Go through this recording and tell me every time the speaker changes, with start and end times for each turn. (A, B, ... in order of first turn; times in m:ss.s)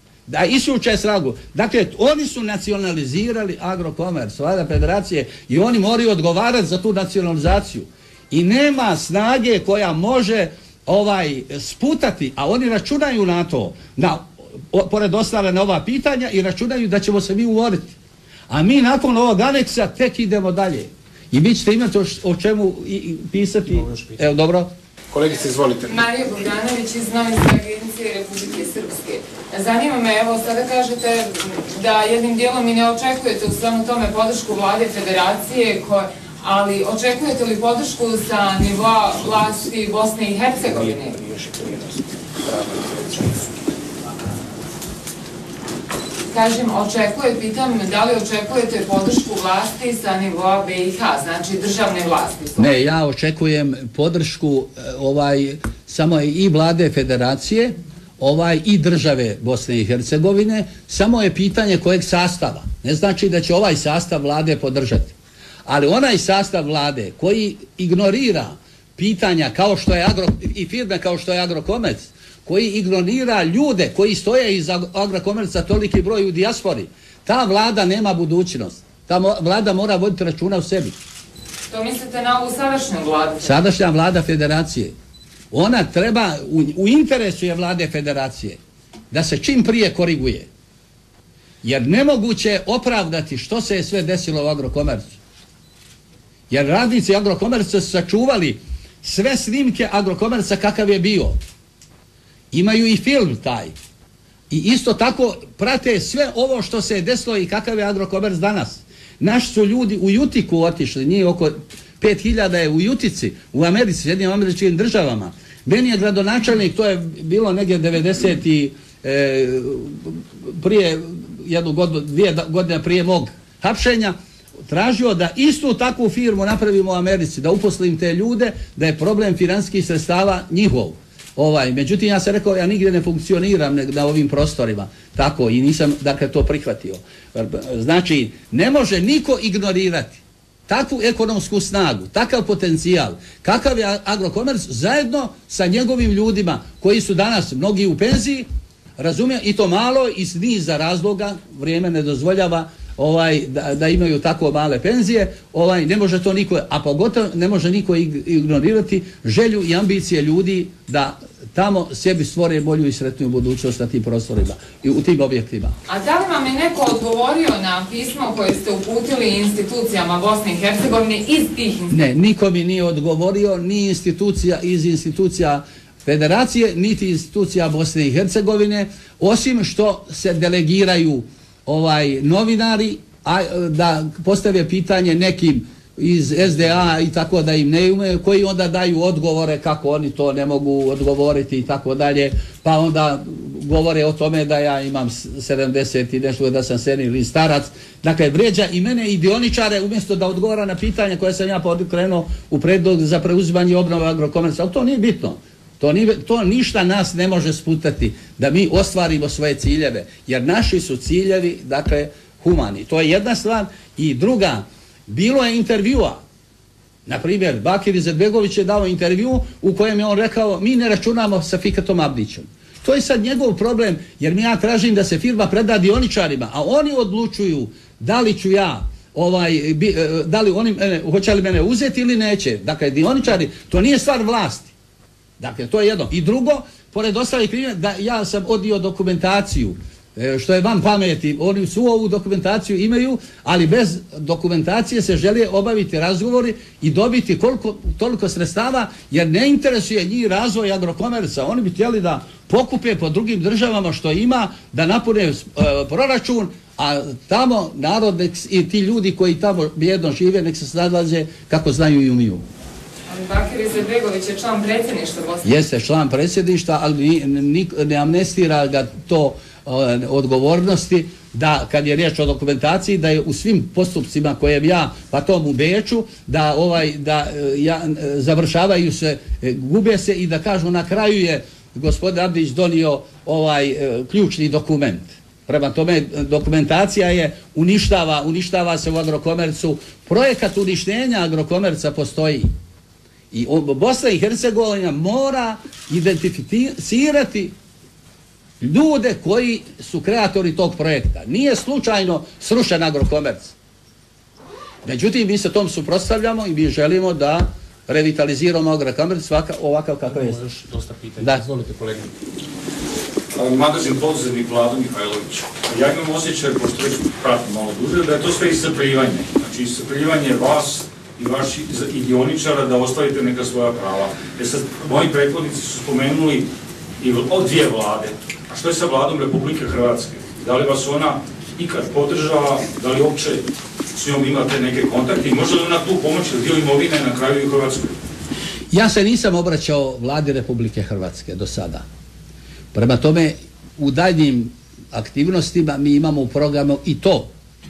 0:00.3-0:18.0 A
0:18.5-0:24.7 A
0:25.1-0:26.0 B
0:25.9-0:41.2 C
0:40.8-0:43.4 B
0:46.3-0:52.7 C
0:52.6-1:05.1 A
1:05.6-1:20.9 A
1:21.7-1:23.6 C
1:23.4-1:24.9 A
1:25.5-1:28.6 A
1:29.1-1:30.5 A
1:31.6-1:35.2 A
1:36.5-1:41.4 A
1:42.5-1:43.7 A
1:44.5-2:04.2 A
2:04.7-2:28.5 A
2:29.0-2:45.8 A
2:45.9-2:51.9 C
2:51.9-3:36.2 A
3:37.0-3:54.7 A
3:55.4-4:22.4 A
4:23.1-4:25.5 C
4:25.4-4:52.5 A
4:53.3-4:57.5 A
4:58.6-5:03.5 A
5:04.8-5:10.4 A
5:10.2-5:12.1 B
5:13.3-5:26.5 D
5:27.0-5:37.9 D
5:38.7-5:41.8 A
5:42.7-5:47.3 A